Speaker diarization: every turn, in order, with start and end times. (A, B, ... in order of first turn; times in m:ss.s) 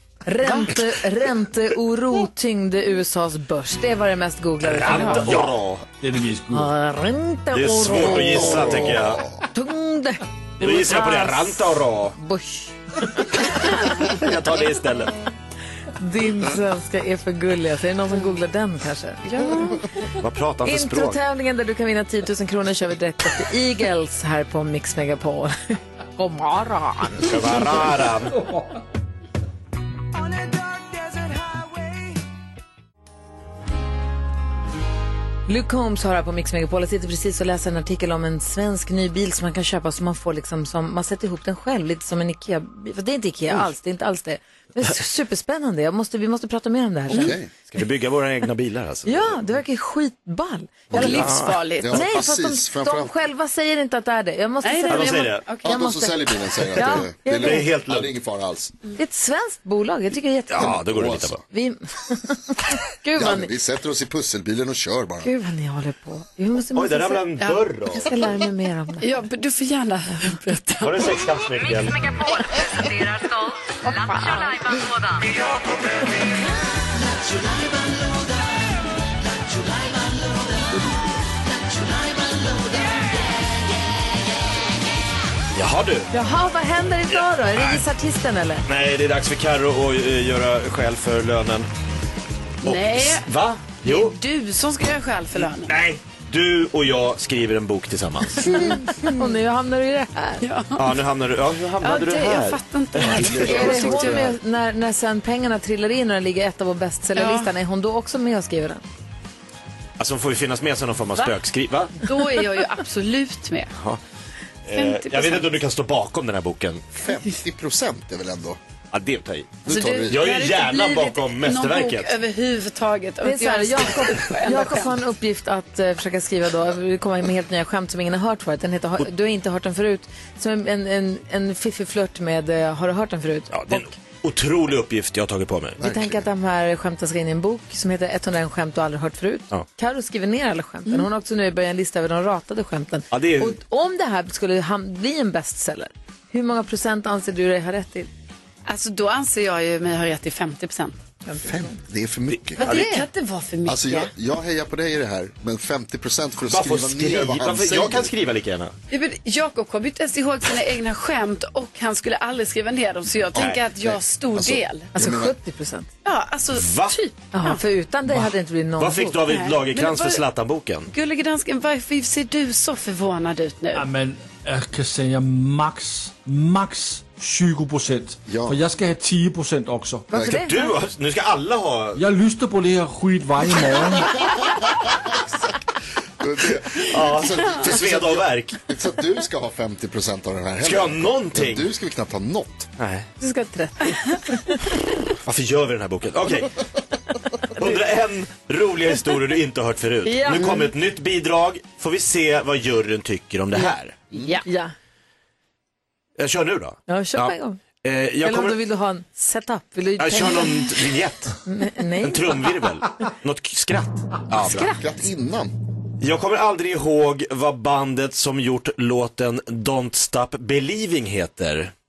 0:00.2-0:05.5 A
0:04.6-0:05.8 B
0:04.8-0:06.7 C
0:06.5-0:09.0 A
0:07.5-0:09.3 B
0:07.9-0:09.4 D
0:09.5-0:13.4 A
0:10.6-0:12.2 B
0:13.4-0:15.1 B
0:16.0-0:19.8 A
0:19.3-0:19.8 E
0:20.1-0:21.2 B
0:20.6-0:27.4 A
0:27.2-0:28.4 B
0:35.5-0:47.4 A
0:47.1-0:47.5 D
0:47.1-0:49.4 B
0:49.0-0:57.7 A
0:50.9-0:53.2 D
0:50.9-0:52.0 E
0:50.9-0:51.5 B
0:54.6-0:55.7 E
0:54.9-0:55.4 B
0:55.6-0:58.7 D
0:57.3-0:58.1 B
0:59.0-1:00.8 A
1:00.5-1:01.4 B
1:00.6-1:01.4 D
1:01.5-1:03.5 A
1:03.1-1:05.3 D
1:05.2-1:07.2 A
1:06.7-1:08.0 B
1:07.4-1:08.1 E
1:08.0-1:09.1 A
1:09.0-1:11.3 E
1:10.8-1:12.0 B
1:13.9-1:14.5 A
1:25.5-1:26.1 B
1:26.1-1:28.6 A
1:27.1-1:27.8 B
1:28.7-1:31.7 B
1:32.6-1:35.8 E
1:32.6-1:34.2 B
1:35.4-1:38.8 B
1:38.5-1:40.4 A
1:40.4-1:41.0 E
1:40.8-1:44.2 B
1:41.8-1:44.2 E
1:43.0-1:44.4 D
1:43.3-1:48.8 A
1:47.2-1:47.5 E
1:50.0-1:52.0 B
1:52.0-1:53.7 E
1:54.6-1:56.9 B
1:54.7-1:55.5 E
1:56.9-1:58.6 D
1:58.9-2:02.1 B
1:59.6-2:00.3 D
1:59.6-2:04.9 E
2:03.2-2:13.9 A
2:13.5-2:15.8 B
2:15.8-2:16.2 D
2:15.8-2:28.1 A
2:23.1-2:23.6 B
2:28.7-2:31.0 E
2:31.2-2:31.8 A
2:31.4-2:32.7 D
2:32.5-2:33.0 B
2:32.6-2:34.1 E
2:32.7-2:32.9 A
2:33.6-2:38.1 D
2:36.5-2:38.7 B
2:38.9-2:44.9 E
2:43.4-2:43.6 B
2:43.4-2:45.3 D
2:45.0-2:45.9 A
2:46.0-2:47.6 E
2:46.5-2:47.0 B
2:47.3-2:49.2 A
2:48.8-2:50.9 B
2:49.3-2:50.2 E
2:50.9-2:53.8 E
2:53.7-3:00.1 C
2:58.3-2:58.6 D
3:00.1-3:00.6 A
3:00.1-3:00.4 D
3:00.2-3:02.0 B
3:02.0-3:04.3 C
3:06.2-3:12.7 D
3:06.8-3:08.6 B
3:10.6-3:11.7 B
3:12.8-3:13.1 B
3:13.2-3:14.6 A
3:15.2-3:16.6 B
3:17.5-3:24.0 B
3:20.0-3:20.7 A
3:24.1-3:24.4 E
3:24.4-3:24.7 A
3:26.2-3:28.6 B
3:26.9-3:27.6 A
3:28.2-3:30.7 A
3:30.0-3:31.4 B
3:31.4-3:32.4 A
3:32.0-3:34.8 B
3:34.3-3:35.5 D
3:34.4-3:34.8 A
3:36.0-3:41.7 B